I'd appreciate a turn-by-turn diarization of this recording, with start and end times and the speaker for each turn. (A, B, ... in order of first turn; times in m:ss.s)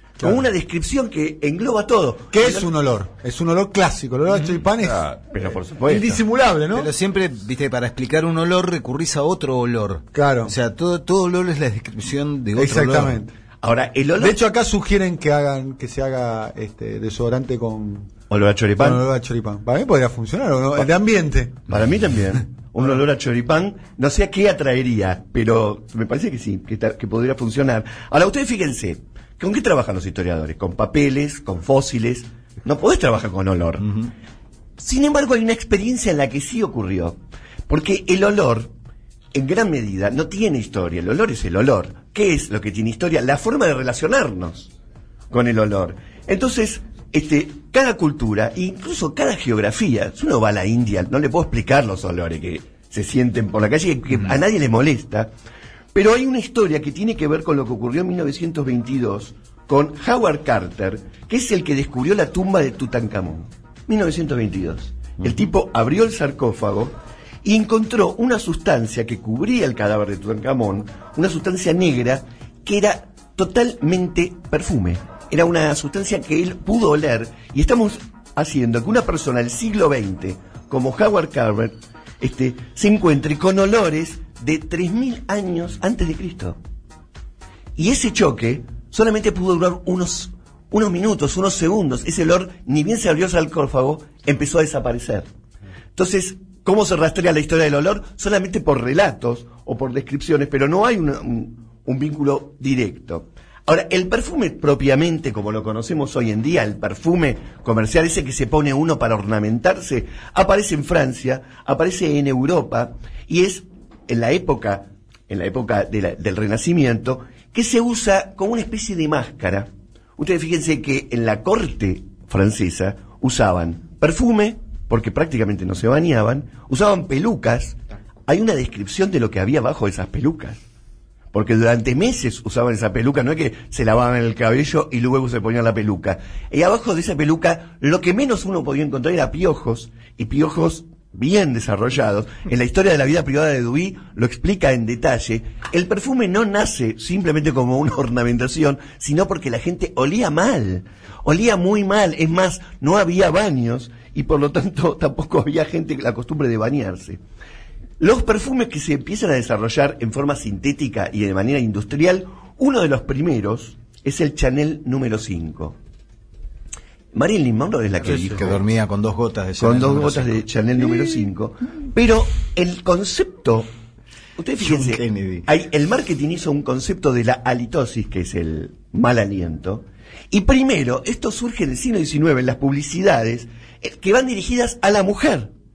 0:00.2-0:00.4 A
0:00.2-0:02.7 B
0:02.3-0:05.1 A
0:04.8-0:06.2 B
0:05.8-0:06.9 A
0:06.7-0:13.2 C
0:10.1-0:10.5 A
0:12.5-0:13.3 A
0:13.6-0:14.4 B
0:14.2-0:18.1 A
0:18.3-0:19.0 B
0:18.8-0:21.6 A
0:21.7-0:34.1 B
0:34.8-0:38.7 B
0:39.3-0:44.7 B
0:45.3-0:55.3 B
0:55.9-1:26.6 B
1:27.8-1:35.3 B
1:36.0-2:10.6 B
2:11.3-2:37.2 B
2:38.0-2:45.8 B
2:47.1-2:48.6 B
2:48.0-2:50.4 C
2:49.6-2:53.7 B
2:54.4-3:05.5 B
2:54.6-2:55.4 C